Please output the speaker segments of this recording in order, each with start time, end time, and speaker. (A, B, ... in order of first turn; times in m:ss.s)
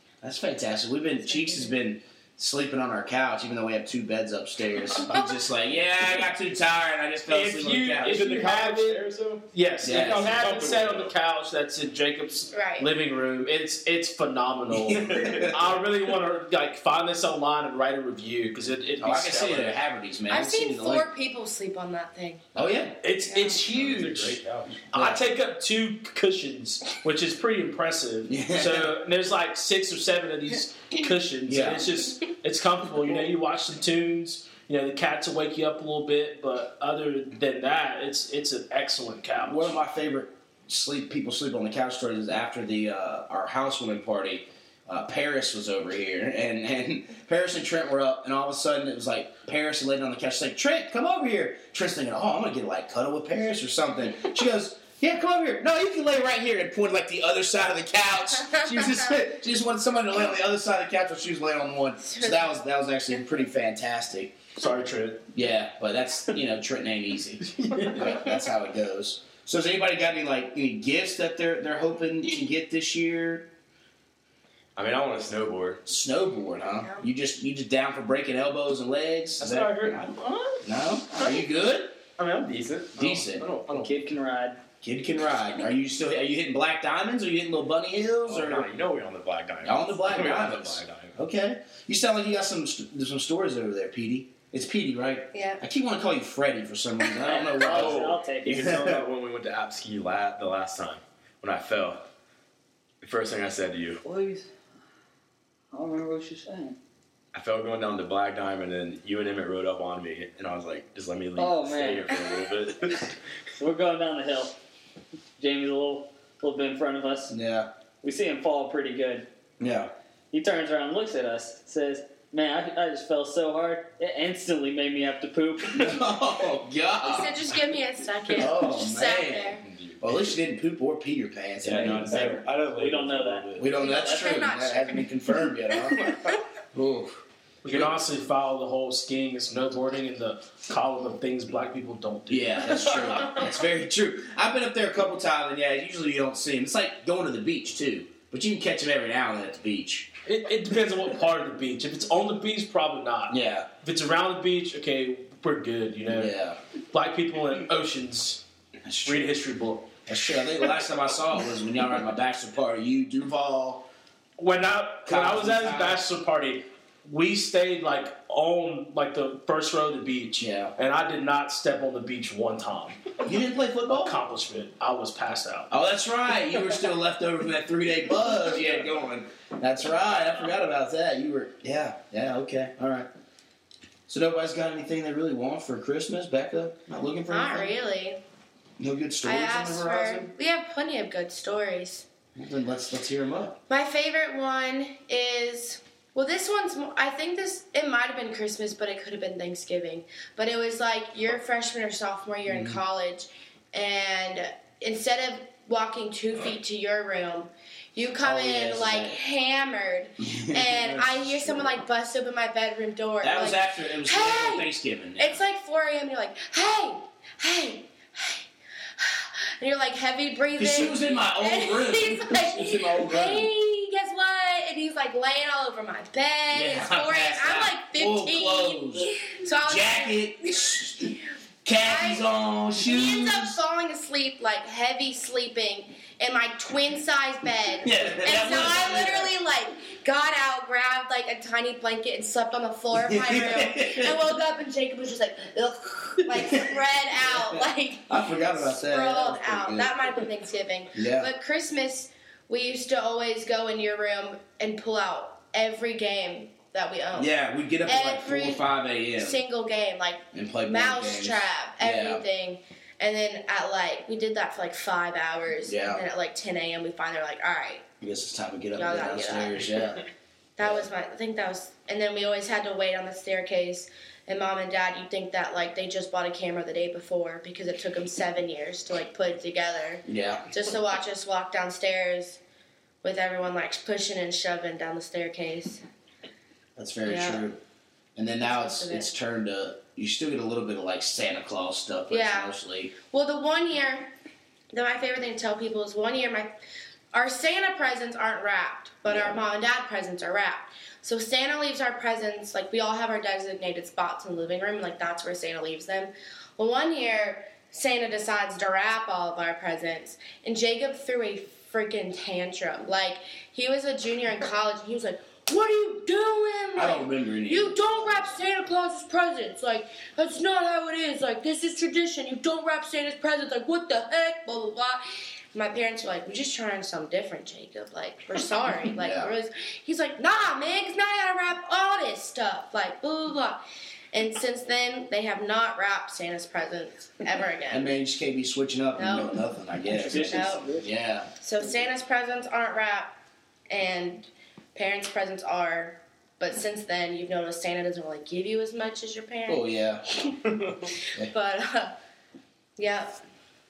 0:00.2-0:08.3 A
0:01.4-0:01.7 B
0:05.1-0:05.4 B
0:07.3-0:19.8 C
0:08.0-0:11.1 D
0:09.8-0:10.3 A
0:12.5-0:12.9 B
0:14.9-0:15.5 A
0:15.1-0:15.4 D
0:19.0-0:21.1 A
0:20.3-0:22.4 B
0:22.5-0:23.0 A
0:23.0-0:24.4 C
0:23.3-0:23.8 B
0:23.6-0:24.8 D
0:24.9-0:39.8 C
0:28.3-0:28.9 A
0:31.5-0:32.0 A
0:39.4-1:04.4 A
1:02.0-1:02.5 B
1:04.6-1:05.2 C
1:05.3-1:13.5 A
1:14.8-1:15.8 D
1:15.9-1:20.0 A
1:19.4-1:20.7 D
1:20.6-1:22.0 A
1:22.2-1:23.9 D
1:23.0-1:23.5 A
1:23.7-1:24.6 E
1:24.8-1:28.7 A
1:28.2-1:31.2 D
1:29.6-1:39.0 A
1:35.3-1:35.6 B
1:37.2-1:38.8 E
1:37.6-1:42.0 D
1:43.0-1:44.0 D
1:44.0-1:44.5 E
1:45.7-1:46.8 E
1:47.3-1:53.1 D
1:51.4-1:52.1 E
1:53.6-1:54.6 E
1:55.4-1:57.3 E
1:57.3-1:57.7 A
1:58.0-1:59.3 E
1:59.6-1:59.9 A
2:00.3-2:06.0 E
2:05.7-2:07.4 A
2:07.0-2:09.6 B
2:08.3-2:12.4 A
2:09.6-2:10.3 D
2:11.6-2:13.8 D
2:12.7-2:14.4 E
2:13.6-2:16.1 A
2:13.7-2:15.1 B
2:15.7-2:16.4 B
2:16.7-2:17.9 A
2:17.6-2:23.4 C
2:22.3-2:30.1 A
2:30.2-2:36.3 C
2:33.3-2:33.7 A
2:36.1-2:36.6 A
2:36.9-2:38.4 C
2:38.8-2:39.3 A
2:39.0-2:39.9 C
2:40.1-2:43.9 A
2:44.4-2:53.0 C
2:45.0-2:46.0 A
2:50.4-2:50.7 A
2:53.2-2:54.2 A
2:53.9-2:55.7 C
2:55.7-3:03.1 A
3:04.1-3:07.8 A
3:07.3-3:08.2 B
3:08.8-3:10.3 A
3:09.2-3:12.1 B
3:12.4-3:13.6 A
3:13.7-3:51.1 B
3:22.5-3:22.8 A
3:28.2-3:29.2 A
3:30.2-3:31.7 A
3:33.2-3:35.4 A
3:40.6-3:43.4 A
3:42.5-3:43.5 D
3:46.5-3:49.1 A
3:49.6-3:53.6 A
3:51.8-3:52.3 B
3:52.8-4:17.3 B
3:57.8-3:59.4 A
4:02.9-4:04.2 A
4:06.2-4:10.2 A
4:10.9-4:11.3 A
4:17.1-4:19.4 A
4:17.9-4:18.6 B
4:19.2-4:27.9 B
4:20.3-4:22.2 A
4:25.6-4:26.0 A
4:28.0-4:30.0 A
4:28.8-4:29.7 B
4:30.6-4:42.4 B
4:30.6-4:30.9 A
4:40.0-4:40.5 A
4:43.0-4:45.8 B
4:46.8-4:47.6 A
4:47.0-4:47.4 B
4:48.2-4:52.9 A
4:48.4-4:49.1 B
4:52.1-4:52.5 B
4:53.0-4:54.1 B
4:54.7-4:56.6 B
4:57.1-5:25.0 B
4:59.0-4:59.4 A
5:16.8-5:17.8 A
5:25.5-5:37.9 B
5:28.9-5:29.3 A
5:37.7-5:41.3 A
5:39.0-5:39.4 B
5:39.9-5:40.9 E
5:40.2-5:40.6 B
5:41.4-5:43.1 B
5:43.7-5:49.6 B
5:49.5-5:50.0 A
5:51.2-5:51.9 B
5:52.8-5:53.2 B